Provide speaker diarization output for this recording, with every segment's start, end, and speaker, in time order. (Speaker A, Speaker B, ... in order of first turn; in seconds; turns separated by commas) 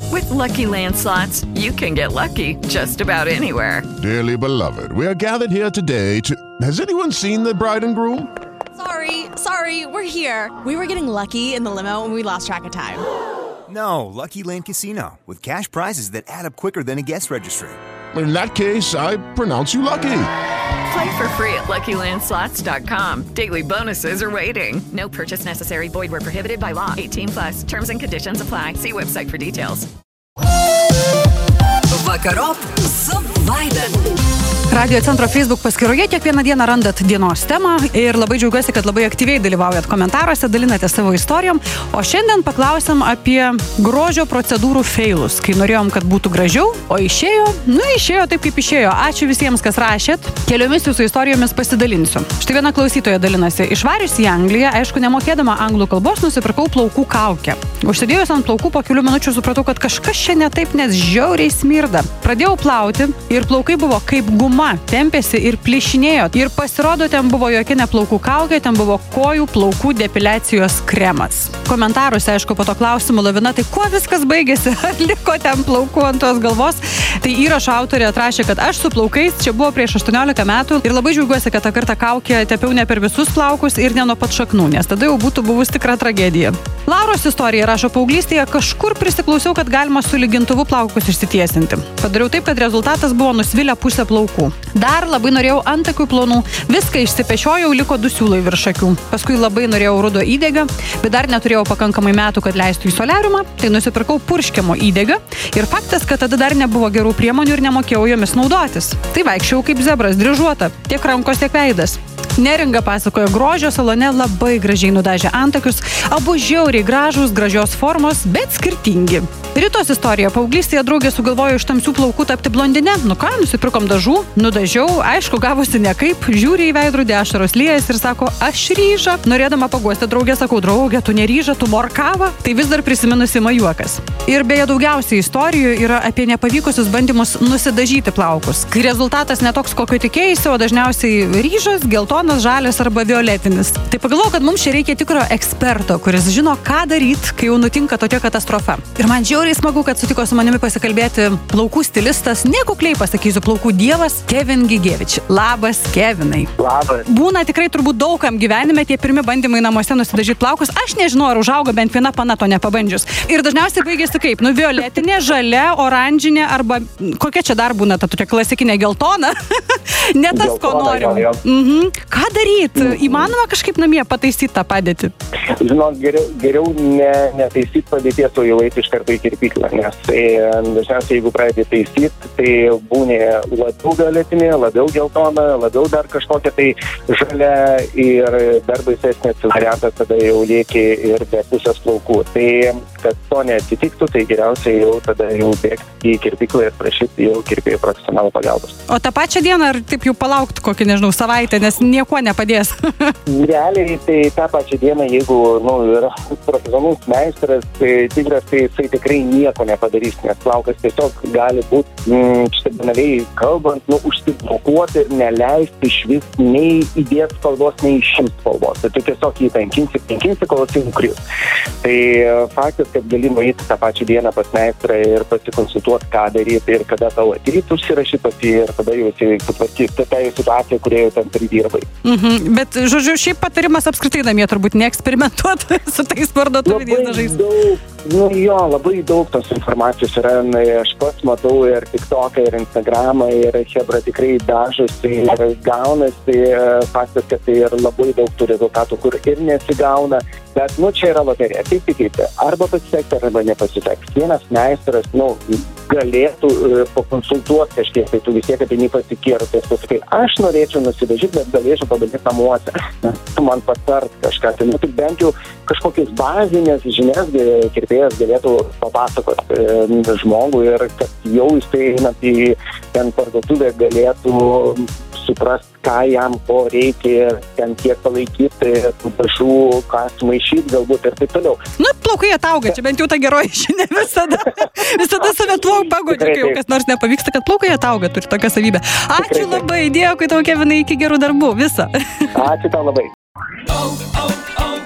Speaker A: 0.1-3.9, Speaker B: 4.0-8.3, Speaker C: 8.8-13.1, Speaker D: 13.7-17.8, Speaker B: 18.1-20.3, Speaker A: 20.9-29.9, Speaker A: 32.1-32.7, Speaker C: 33.2-33.9, Speaker E: 34.7-156.5, Speaker F: 156.6-157.0, Speaker E: 157.1-175.1, Speaker F: 170.3-171.4, Speaker F: 172.8-173.3, Speaker F: 175.6-198.8, Speaker E: 198.9-203.1, Speaker F: 203.3-221.2, Speaker F: 221.8-231.9, Speaker E: 232.0-237.4, Speaker F: 236.6-281.6, Speaker E: 281.8-292.4, Speaker F: 286.1-286.6, Speaker F: 289.2-289.6, Speaker F: 292.3-293.1